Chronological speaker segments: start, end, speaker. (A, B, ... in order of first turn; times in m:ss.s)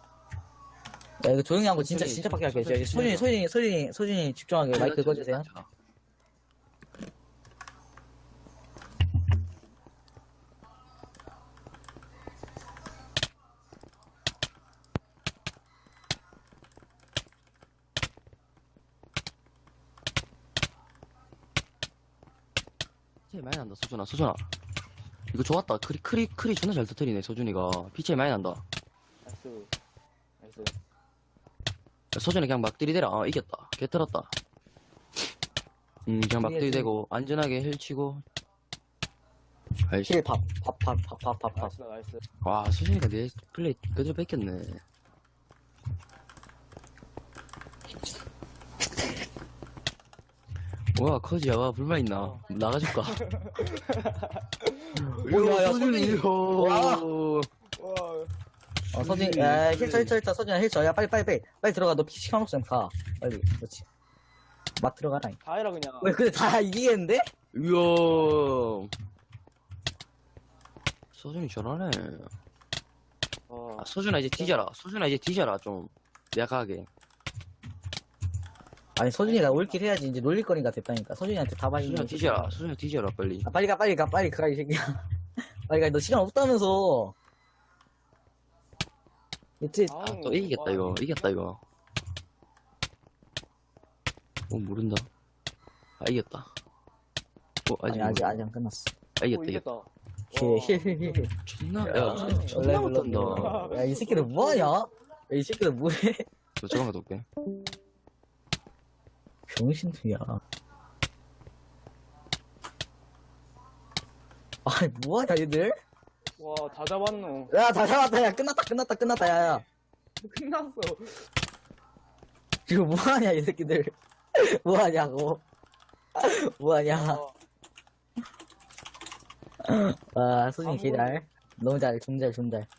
0:01.2-0:05.5 A
0:01.8-0:03.3 B
0:04.7-0:05.7 B
0:23.3-0:24.5 B
0:25.3-0:28.6 B
0:29.2-0:29.7 C
0:30.4-0:30.8 C
0:32.1-0:34.3 B
0:36.1-0:38.2 B
0:36.4-0:36.9 A
0:39.9-0:40.2 B
0:40.1-0:41.7 A
0:41.5-0:42.2 C
0:42.4-0:44.8 B
0:51.0-0:53.3 B
0:52.1-0:52.4 C
0:53.2-0:55.3 C
0:55.0-0:57.5 B
0:55.2-0:57.1 A
0:57.8-0:58.3 C
0:58.9-1:00.2 B
0:58.9-1:03.9 A
1:04.8-1:05.4 A
1:05.4-1:06.2 C
1:06.0-1:07.2 A
1:07.5-1:08.9 B
1:11.1-1:12.3 B
1:13.5-1:14.6 C
1:13.8-1:16.9 B
1:19.0-1:22.6 A
1:19.2-1:19.8 C
1:21.8-1:23.5 B
1:23.4-1:25.0 A
1:25.7-1:27.2 A
1:29.6-1:30.0 A
1:29.9-1:31.3 C
1:30.0-1:31.6 B
1:34.5-1:35.1 B
1:36.0-1:36.5 B
1:37.7-1:38.4 B
1:37.9-1:38.9 A
1:39.2-1:39.6 B
1:39.3-1:41.3 C
1:40.3-1:41.3 A
1:41.4-1:43.6 B
1:41.8-1:46.8 A
1:41.9-1:44.7 C
1:46.6-1:47.3 B
1:49.5-1:50.4 A
1:54.6-1:55.8 A
1:56.4-1:57.5 C
1:57.5-1:59.6 A
2:00.2-2:01.2 C
2:02.7-2:05.4 A
2:06.2-2:07.2 A
2:06.9-2:07.4 C
2:09.6-2:12.7 A
2:10.6-2:11.2 C